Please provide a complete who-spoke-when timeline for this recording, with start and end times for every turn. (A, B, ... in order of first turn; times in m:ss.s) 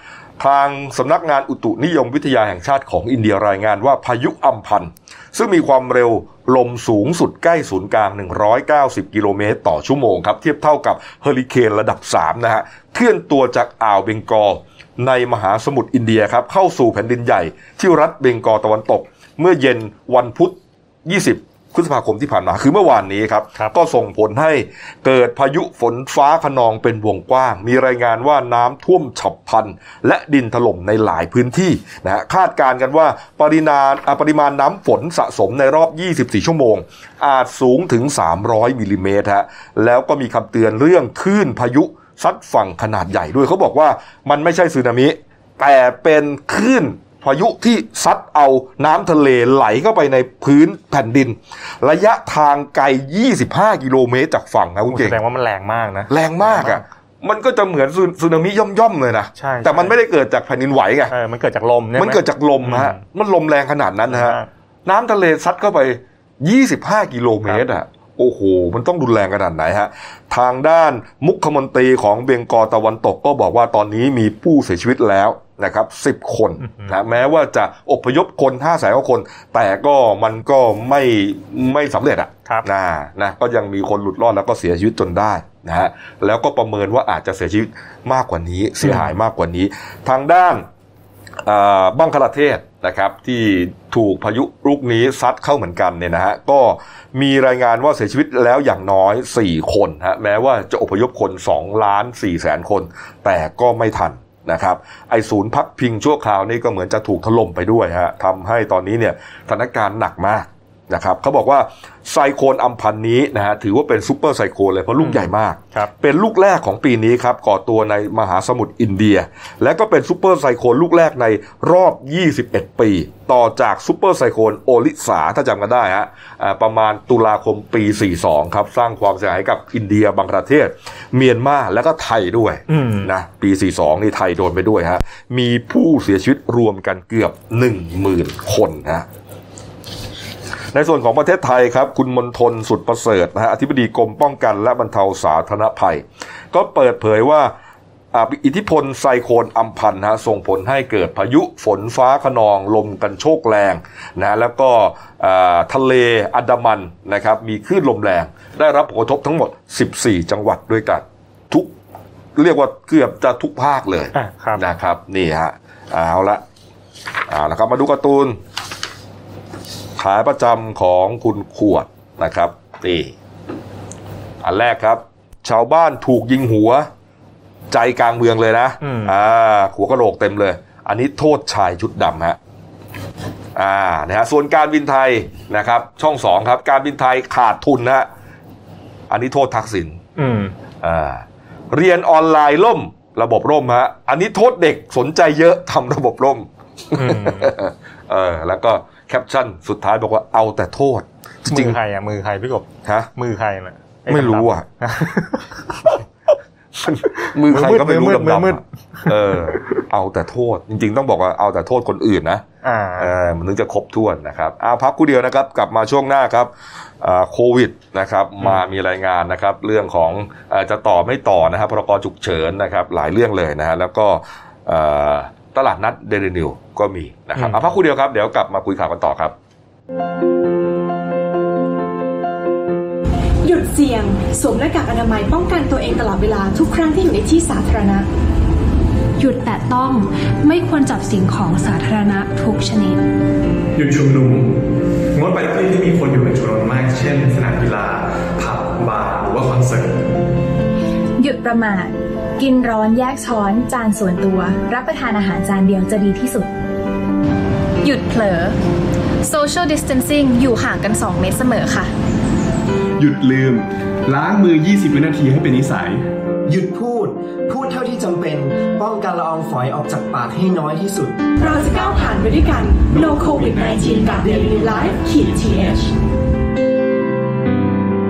0:00.4-0:55.2 A
0:54.9-0:56.8 B
0:56.1-1:01.1 A
0:59.4-1:00.0 B
1:01.1-1:03.0 B
1:02.0-1:30.6 A
1:04.1-1:04.5 B
1:16.6-1:17.0 B
1:28.8-1:29.1 B
1:31.4-2:19.1 A
1:55.0-1:55.9 B
2:12.7-2:13.1 B
2:20.7-2:27.5 A
2:28.1-2:41.7 A
2:42.4-2:46.4 A
2:44.1-2:44.6 B
2:47.3-2:48.4 A
2:50.0-2:53.1 A
2:54.4-2:56.9 A
2:57.7-3:02.4 A
2:58.8-2:59.1 B
3:03.6-3:08.1 A
3:09.1-3:10.0 A
3:10.2-3:10.5 B
3:10.8-3:21.8 A
3:17.0-3:17.5 B
3:21.5-3:26.0 B
3:24.1-3:24.6 A
3:26.8-3:32.4 A
3:27.4-3:28.6 B
3:32.6-3:33.1 B
3:33.0-3:49.4 A
3:47.4-3:47.6 B
3:53.4-3:58.1 C
3:59.2-4:03.0 D
4:03.8-4:04.4 E
4:05.2-4:09.9 E
4:11.2-4:16.5 F
4:17.8-4:18.6 F
4:19.2-4:21.9 F
4:23.0-4:26.0 E
4:26.4-4:31.5 G
4:31.4-4:35.9 C
4:33.0-4:33.9 E
4:34.2-4:34.5 G